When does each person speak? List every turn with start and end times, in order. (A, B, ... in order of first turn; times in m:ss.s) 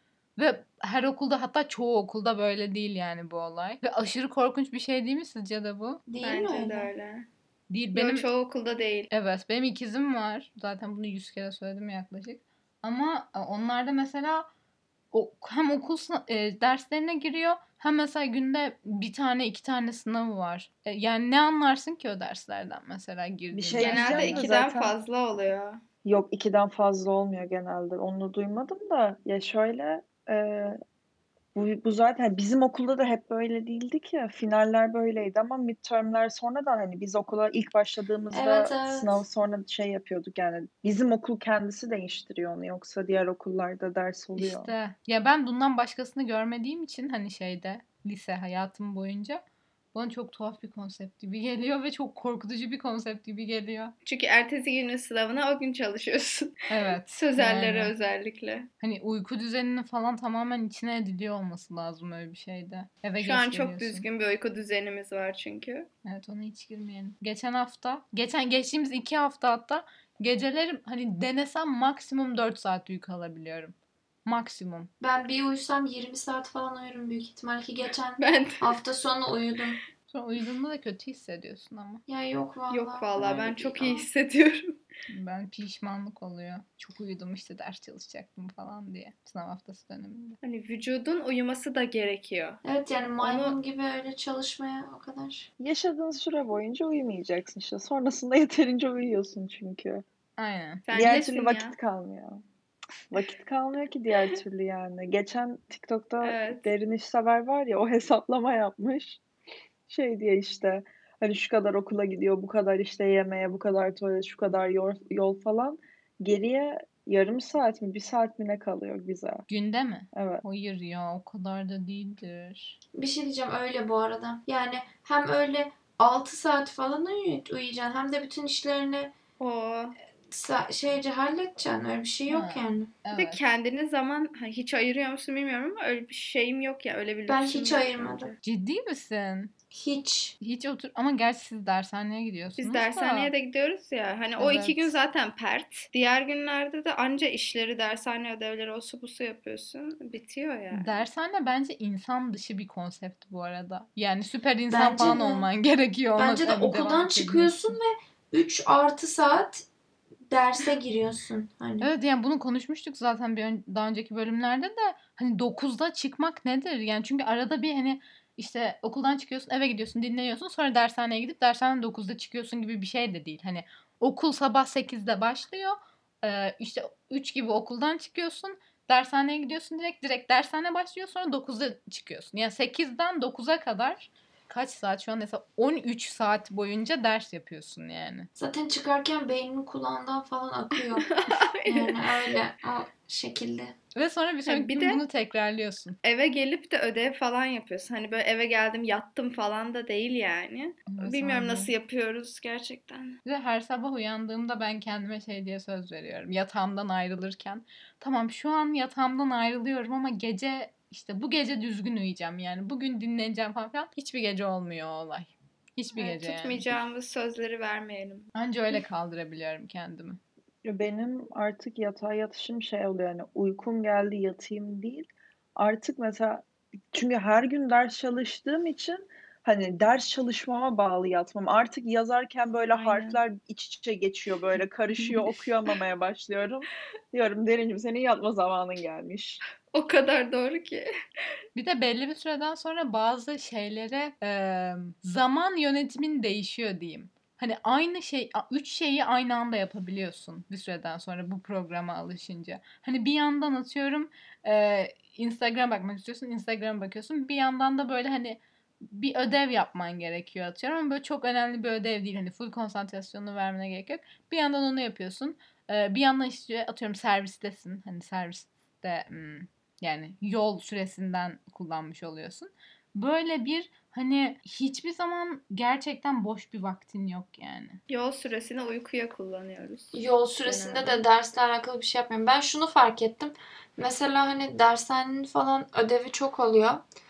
0:00.4-0:06.0 A
0:06.1-0:06.9 B
0:06.2-0:07.3 C
0:07.7-0:08.3 A
0:07.9-0:09.1 C
0:09.1-0:14.5 A
0:15.1-0:24.5 A
0:23.5-0:24.9 D
0:23.7-0:25.8 C
0:26.0-0:30.8 D
0:31.6-0:44.7 D
0:38.3-0:39.2 B
0:44.4-0:49.4 A
0:49.9-0:53.9 A
0:54.1-0:56.5 C
0:56.7-0:57.9 A
0:57.1-0:58.7 C
0:58.8-1:04.1 A
1:03.2-1:05.9 C
1:06.0-1:14.9 A
1:15.0-1:19.8 B
1:18.2-1:18.7 C
1:20.1-1:22.0 A
1:22.1-1:24.1 B
1:22.7-1:24.7 C
1:25.1-1:30.4 A
1:30.4-1:32.6 C
1:32.6-1:35.5 B
1:33.2-1:33.6 C
1:35.6-1:40.0 D
1:40.4-1:40.8 A
1:40.9-1:41.7 C
1:40.9-1:42.4 D
1:43.1-1:49.2 D
1:46.2-1:46.7 C
1:49.9-1:59.4 D
1:59.5-2:02.8 A
2:00.1-2:00.4 D
2:02.9-2:09.1 B
2:09.4-2:10.0 C
2:10.3-2:12.9 B
2:12.3-2:13.4 A
2:13.1-2:18.3 C
2:17.3-2:18.3 B
2:18.4-2:19.5 A
2:19.7-2:20.4 B
2:20.4-2:23.3 A
2:22.6-2:31.0 C
2:24.4-2:25.0 A
2:30.7-2:37.8 A
2:34.7-2:35.5 B
2:36.2-2:39.6 B
2:40.3-2:41.9 B
2:41.8-3:08.3 A
3:08.4-3:11.1 B
3:11.0-3:12.3 C
3:11.6-3:13.8 B
3:14.0-3:16.0 A
3:14.5-3:15.0 C
3:16.0-3:23.2 C
3:20.9-3:21.7 A
3:23.2-3:36.6 A
3:36.0-3:38.3 C
3:38.4-3:40.2 A
3:40.6-3:59.4 D
3:52.7-3:53.2 C
3:59.7-4:00.9 C
4:01.6-4:37.8 A
4:37.9-4:41.0 C
4:39.9-4:46.8 B